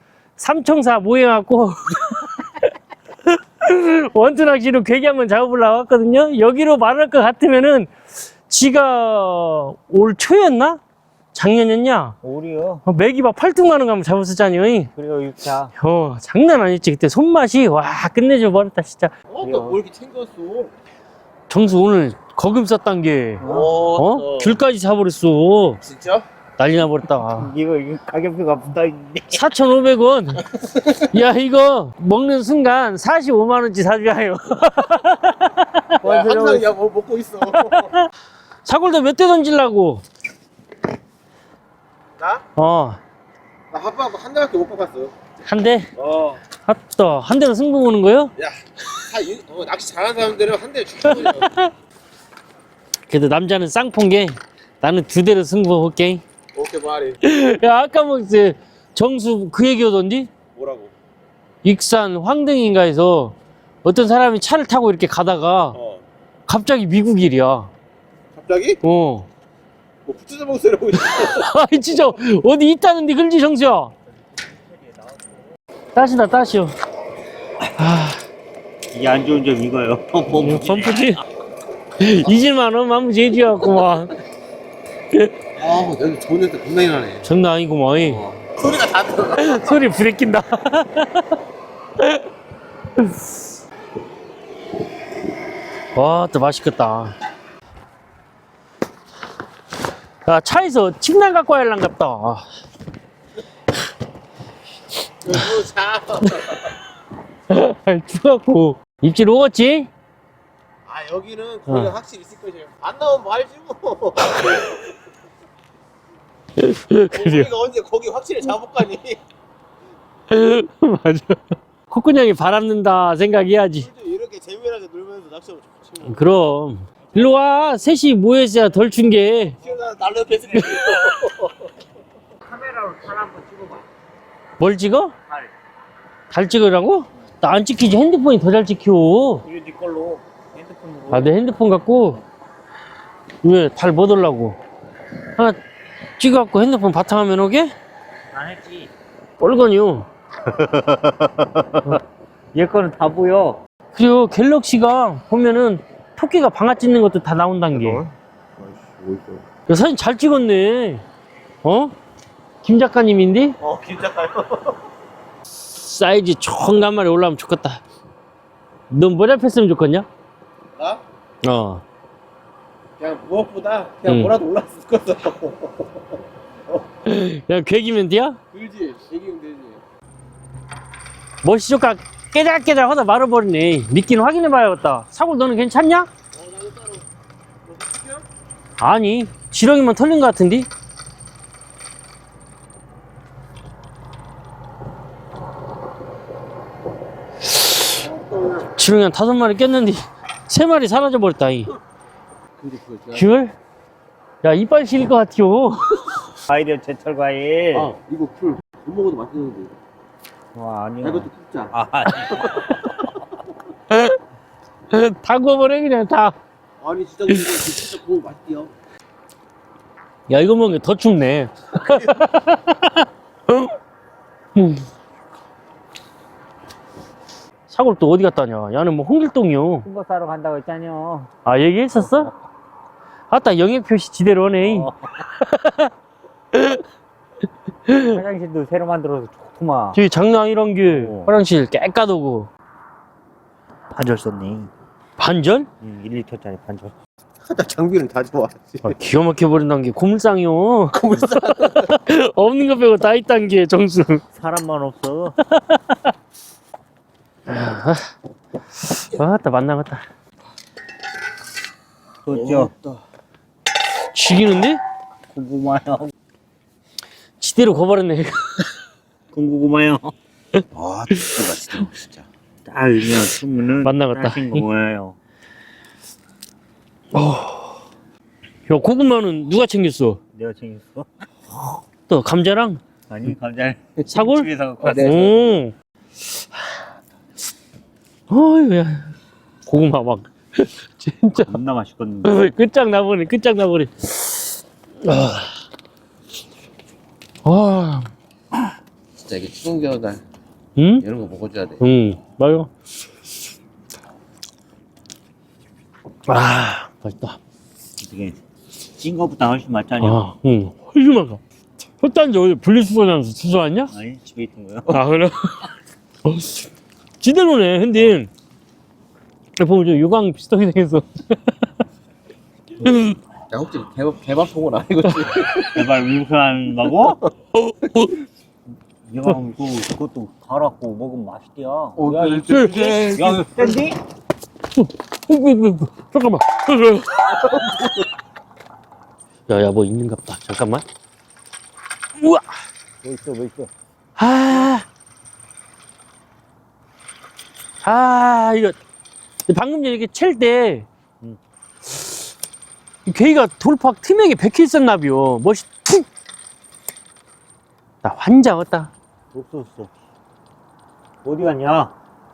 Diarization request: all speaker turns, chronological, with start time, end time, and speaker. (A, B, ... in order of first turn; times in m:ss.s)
0:00.4-0:02.5 A
0:03.3-0:07.9 A
0:08.5-0:10.8 A
0:11.4-0:12.2 A
0:12.2-0:12.8 B
0:12.9-0:14.9 A
0:15.0-0:15.7 B
0:15.8-0:19.1 A
0:19.3-0:20.7 C
0:19.4-0:19.8 B
0:21.5-0:23.4 A
0:23.4-0:23.8 B
0:23.4-0:24.6 C
0:24.0-0:25.8 A
0:25.8-0:26.2 C
0:26.6-0:27.5 A
0:27.2-0:29.4 B
0:29.3-0:30.5 A
0:31.0-0:36.6 A
0:36.0-0:37.9 C
0:36.1-0:36.6 B
0:37.7-0:38.0 A
0:38.6-0:40.0 A
0:42.2-0:42.4 C
0:42.6-0:43.0 A
0:43.7-0:45.1 C
0:45.5-0:45.9 A
0:46.0-0:46.4 C
0:46.6-0:48.3 A
0:48.4-0:51.5 C
0:51.2-0:51.7 A
0:53.1-0:56.2 A
0:56.5-0:57.2 C
0:57.2-1:00.3 A
1:00.6-1:00.9 C
1:01.6-1:05.8 A
1:05.7-1:06.0 C
1:06.5-1:07.7 A
1:08.3-1:08.8 C
1:08.8-1:09.3 A
1:10.0-1:11.5 C
1:11.0-1:13.9 A
1:16.0-1:16.7 A
1:17.8-1:18.2 A
1:18.9-1:21.2 B
1:20.3-1:21.2 A
1:22.0-1:24.1 A
1:25.6-1:27.2 C
1:27.2-1:28.2 A
1:28.0-1:29.8 C
1:29.4-1:31.3 A
1:36.0-1:37.2 A
1:40.3-1:42.4 A
1:45.2-1:46.7 C
1:47.5-1:49.9 A
1:50.9-1:54.8 C
1:54.3-1:54.6 A
1:56.6-1:57.5 A
1:57.1-1:59.2 C
2:00.3-2:03.9 A
2:03.8-2:06.2 C
2:06.1-2:09.6 A
2:09.6-2:11.6 C
2:10.6-2:11.2 A
2:12.4-2:13.8 B
2:14.6-2:15.1 A
2:16.3-2:19.4 A
2:19.5-2:21.4 B
2:21.1-2:22.2 A
2:23.4-2:24.6 A
2:26.2-2:27.7 A
2:28.3-2:28.9 B
2:29.4-2:30.1 A
2:30.5-2:32.0 B
2:32.5-2:33.6 B
2:34.0-2:38.0 A
2:37.7-2:39.4 C
2:39.7-2:41.0 A
2:41.6-2:42.0 A
2:42.6-2:43.6 A
2:43.6-2:44.8 C
2:45.8-2:47.8 A
2:48.9-2:50.1 A
2:51.4-2:51.8 A
2:53.0-2:56.0 C
2:54.1-2:54.3 A
2:57.0-2:58.4 A
2:58.5-2:59.8 C
3:01.4-3:06.1 A
3:06.3-3:07.0 C
3:07.7-3:08.2 C
3:08.8-3:10.7 A
3:18.0-3:18.7 C
3:18.8-3:21.7 A
3:22.6-3:23.3 C
3:23.1-3:23.5 A
3:24.4-3:26.2 A
3:26.5-3:27.9 B
3:27.7-3:29.7 C
3:30.5-3:32.9 B
3:31.0-3:33.1 C
3:33.9-3:34.2 A
3:34.9-3:36.4 A
3:36.8-3:38.7 C
3:40.3-3:43.7 A
3:44.6-3:44.9 A
3:47.7-3:49.9 A
3:49.8-3:51.3 B
3:51.5-3:52.3 A
3:53.3-3:55.9 A
3:54.6-3:55.0 B
3:56.5-3:56.8 A
3:57.9-3:58.2 A
3:58.1-4:00.0 B
3:59.9-4:02.5 A
4:00.8-4:01.3 B
4:03.9-4:04.7 B
4:05.2-4:05.7 A
4:05.8-4:07.0 B
4:07.4-4:09.0 C
4:08.8-4:14.2 A
4:10.9-4:11.9 C
4:14.3-4:15.4 B
4:15.5-4:16.0 A
4:17.5-4:18.1 A
4:18.9-4:20.0 A
4:22.2-4:22.7 B
4:22.3-4:23.0 C
4:24.1-4:24.8 A
4:25.3-4:26.1 B
4:27.4-4:28.7 A
4:29.3-4:30.1 B
4:30.7-4:32.2 C
4:32.7-4:35.2 B
4:33.8-4:34.6 A
4:37.1-4:37.7 A
4:38.7-4:40.2 A
4:40.3-4:41.1 B
4:42.1-4:42.8 A
4:43.1-4:45.2 B
4:44.1-4:45.7 A
4:44.8-4:45.6 C
4:48.3-4:49.1 A
4:49.7-4:51.6 A
4:51.5-4:52.3 B
4:52.2-4:54.1 A
4:55.0-4:55.5 A
4:57.4-4:58.1 A
4:59.2-5:00.2 C
5:00.8-5:01.1 A
5:01.0-5:01.8 C
5:01.8-5:02.7 A
5:06.3-5:07.4 A
5:08.0-5:08.4 B
5:09.0-5:10.2 B
5:10.0-5:11.4 A
5:12.0-5:13.9 A
5:13.9-5:15.0 B
5:14.9-5:15.7 A
5:16.3-5:16.6 A
5:17.2-5:18.3 A
5:19.6-5:21.1 A
5:22.8-5:23.2 A
5:23.5-5:25.9 C
5:25.7-5:27.2 B
5:27.7-5:28.2 A
5:29.1-5:34.0 B
5:32.0-5:33.7 C
5:32.5-5:33.4 A
5:34.8-5:37.6 A
5:37.4-5:37.9 C
5:39.5-5:40.9 A
5:42.2-5:42.5 A
5:43.0-5:43.7 B
5:44.2-5:44.8 A
5:47.8-5:48.8 A
5:49.5-5:50.9 A
5:53.1-5:56.1 A
5:58.0-5:58.9 A
5:59.3-5:59.9 B
6:01.2-6:01.9 B